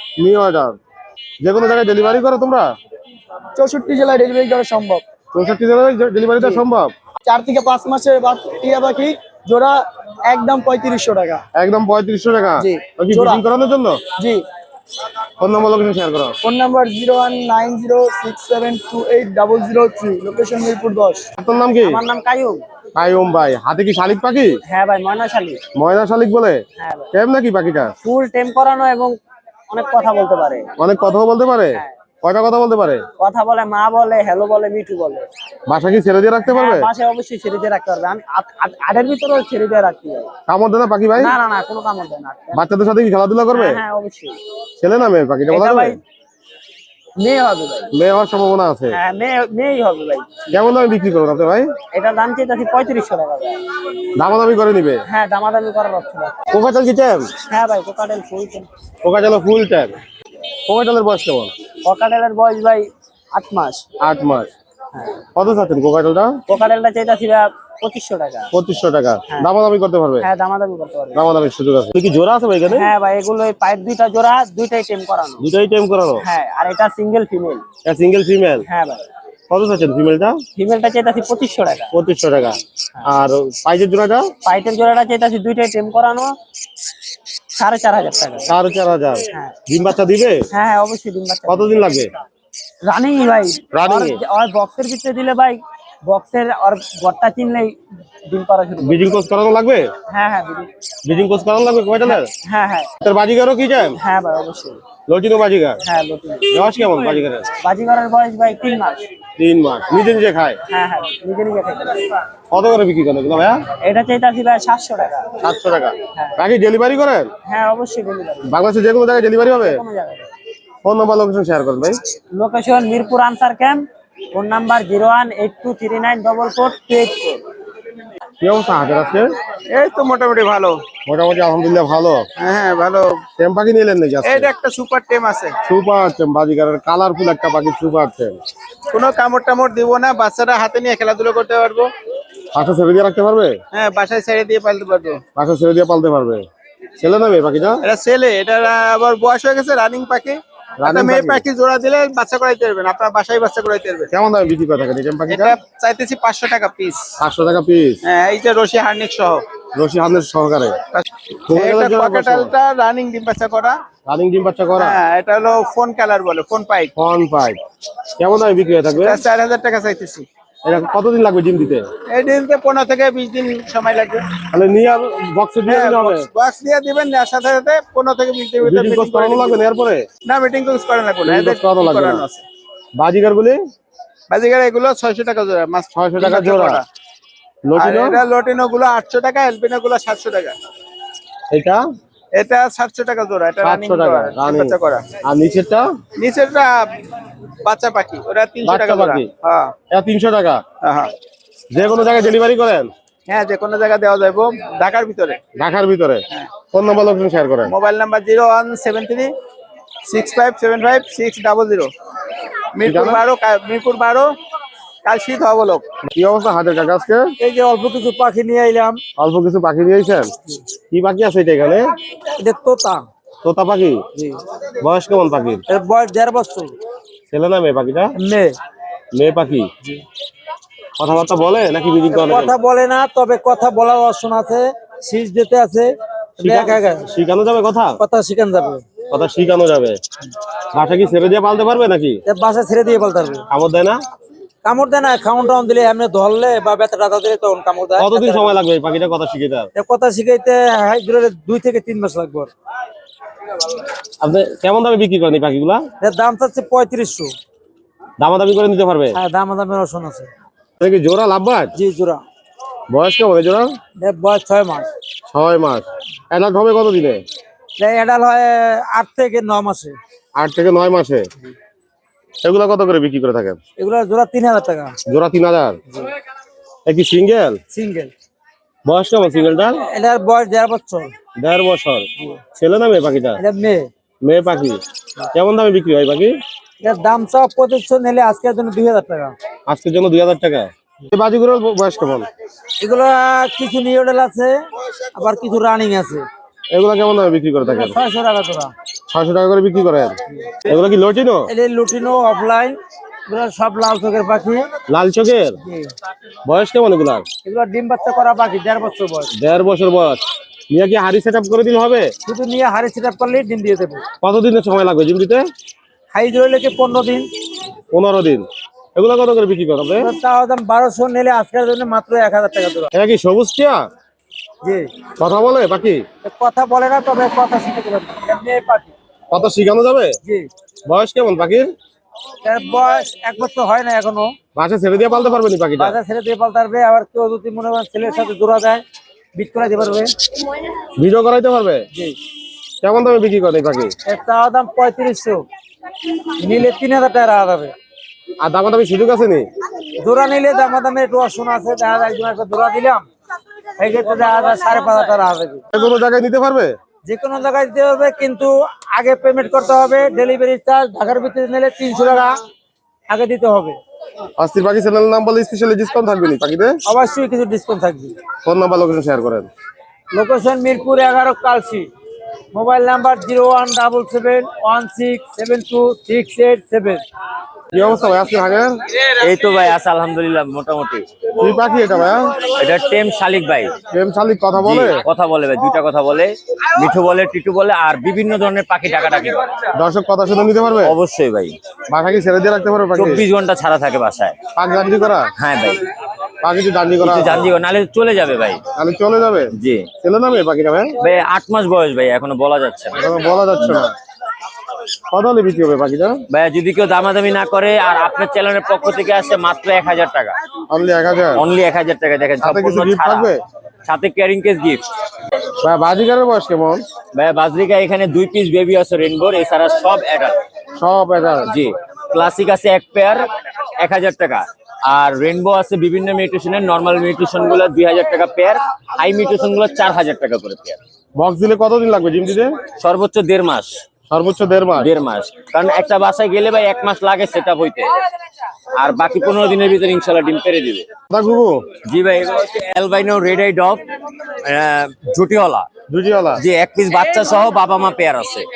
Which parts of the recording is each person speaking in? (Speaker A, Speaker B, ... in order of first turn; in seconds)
Speaker A: 0.2-0.8, 1.4-2.7, 5.3-6.9, 11.6-14.0, 15.4-16.4, 21.4-22.0, 22.9-24.6, 25.8-27.9, 30.8-33.0, 35.7-36.9, 40.5-41.4, 42.5-43.8, 44.8-46.0, 47.9-49.0, 50.5-51.7, 54.2-55.0, 56.5-57.3, 59.0-59.9, 60.7-61.5, 64.0-64.5, 65.3-66.4, 68.5-70.3, 71.2-72.9, 75.4-76.2, 77.8-78.7, 79.5-80.4, 81.9-84.3, 88.5-90.4, 91.5-92.1, 93.7-94.2, 98.8-99.9, 101.0-102.3, 103.0-104.0, 105.1-105.8, 106.5-107.5, 109.4-110.6, 112.5-113.7, 115.4-117.3, 118.5-119.8, 120.8-122.0, 128.4-129.3, 131.1-132.2, 133.4-134.5, 135.7-138.4, 142.5-143.6, 145.3-146.5, 147.0-147.8, 150.8-151.4, 154.1-155.6, 157.2-158.0, 159.8-160.8, 161.5-162.5, 164.1-165.0, 167.0-167.6, 168.2-169.2, 170.7-171.9, 174.5-176.3, 178.6-180.1, 181.2-182.2, 183.0-183.6, 185.9-186.8, 187.7-188.2, 191.5-191.8, 193.6-195.9, 198.7-199.3, 199.9-200.6, 201.7-202.9, 205.6-207.7, 212.8-213.2, 216.0-217.3, 219.2-220.3, 220.9-221.9, 223.4-224.0, 224.8-225.6, 227.3-228.1, 229.1-229.7, 231.0-232.5, 236.4-238.0, 239.1-240.0, 240.7-242.2, 243.5-244.0, 248.0-249.7, 254.2-255.8, 258.2-259.2, 260.8-261.7, 262.9-263.7, 265.3-267.2, 270.4-271.3, 272.4-273.6, 275.1-275.8, 276.9-277.6, 278.9-279.8, 281.4-283.4, 284.2-284.8, 285.3-286.4, 289.7-292.3, 296.7-298.0, 299.1-300.2, 300.7-301.5, 304.9-305.6, 306.4-307.3, 309.4-312.1, 314.2-315.5, 317.9-320.1, 322.9-323.8, 325.2-326.1, 329.3-330.1, 330.9-331.7, 334.6-336.0, 341.0-341.9, 342.8-343.9, 348.4-349.5, 355.7-356.8, 364.4-366.8, 368.4-369.5, 377.7-378.7, 381.4-382.5, 383.9-385.0, 389.8-390.9, 391.9-393.2, 394.6-395.3, 396.4-397.4, 398.8-400.9, 402.9-403.9, 405.1-406.2, 410.7-411.4, 412.4-413.4, 415.6-416.8, 420.8-421.6, 431.2-432.6, 434.1-434.9, 441.1-441.7, 445.9-446.4
Speaker B: 3.6-5.0, 7.2-11.4, 12.6-13.4, 16.4-21.2
Speaker C: 21.8-22.6, 24.7-25.6, 28.0-29.1, 29.7-30.7, 33.2-35.2, 36.7-38.4, 41.2-42.5, 43.6-44.3, 47.2-47.9, 49.1-50.1, 51.9-53.6, 55.1-56.3, 57.5-58.7, 61.9-63.8, 66.5-68.5, 70.2-71.2, 72.8-75.4, 76.3-77.6, 80.6-81.6, 84.5-86.3, 87.6-88.4, 90.6-91.4, 92.9-95.6, 96.1-97.7, 98.3-99.0, 100.3-100.6, 104.1-104.8, 107.7-109.0, 110.7-111.9, 113.9-115.2, 117.5-118.4, 119.6-120.2, 122.3-127.4
Speaker D: 36.5-36.8, 38.4-40.3, 45.5-46.0, 50.0-50.2, 91.4-91.7, 100.4-100.7, 102.1-102.9, 105.9-107.2, 217.4-219.0, 222.4-223.1, 225.7-226.8, 228.2-228.6, 232.1-237.1, 238.0-238.8, 242.3-243.4, 244.6-248.5, 249.8-252.5, 256.0-257.3, 259.1-260.3, 261.8-262.2, 264.0-264.9, 267.8-270.0, 273.8-274.9, 277.7-278.1, 279.9-281.1, 283.4-283.9, 286.8-289.4, 292.8-294.6, 295.1-296.2, 297.6-298.7, 301.5-304.7, 305.6-305.9, 307.4-309.3, 312.3-314.0, 316.1-317.3, 320.0-322.9, 324.6-324.9, 326.2-328.9, 332.4-334.4, 335.8-338.8, 339.4-340.1, 344.1-345.5, 346.4-347.7, 350.0-353.1, 353.8-355.6, 357.1-362.3, 363.1-363.8, 366.9-368.1, 370.1-371.9, 372.5-377.0
Speaker E: 129.7-130.8, 132.4-133.2, 134.2-135.6, 138.9-141.9, 143.7-145.2, 147.8-154.1, 155.3-157.1, 158.1-159.4, 160.9-163.8, 164.8-166.9, 169.0-170.3, 172.1-174.3, 175.6-179.6, 180.3-182.4, 184.3-186.8, 187.8-190.6, 192.4-195.1, 196.2-196.9, 197.6-199.8, 200.8-201.1, 203.3-205.4, 207.7-209.3, 210.1-211.9, 212.8-214.3, 215.0-215.8
Speaker F: 379.1-381.1, 382.6-383.7, 384.6-389.4, 390.9-391.6, 392.9-394.4, 395.4-395.8, 397.0-398.6, 399.6-399.9, 401.0-403.0, 406.3-410.4, 411.4-413.3, 413.9-414.8, 417.1-420.4, 421.5-423.3, 423.8-430.8, 432.8-433.7, 434.8-437.9, 438.8-440.9, 441.9-443.8, 444.4-445.7, 446.4-448.4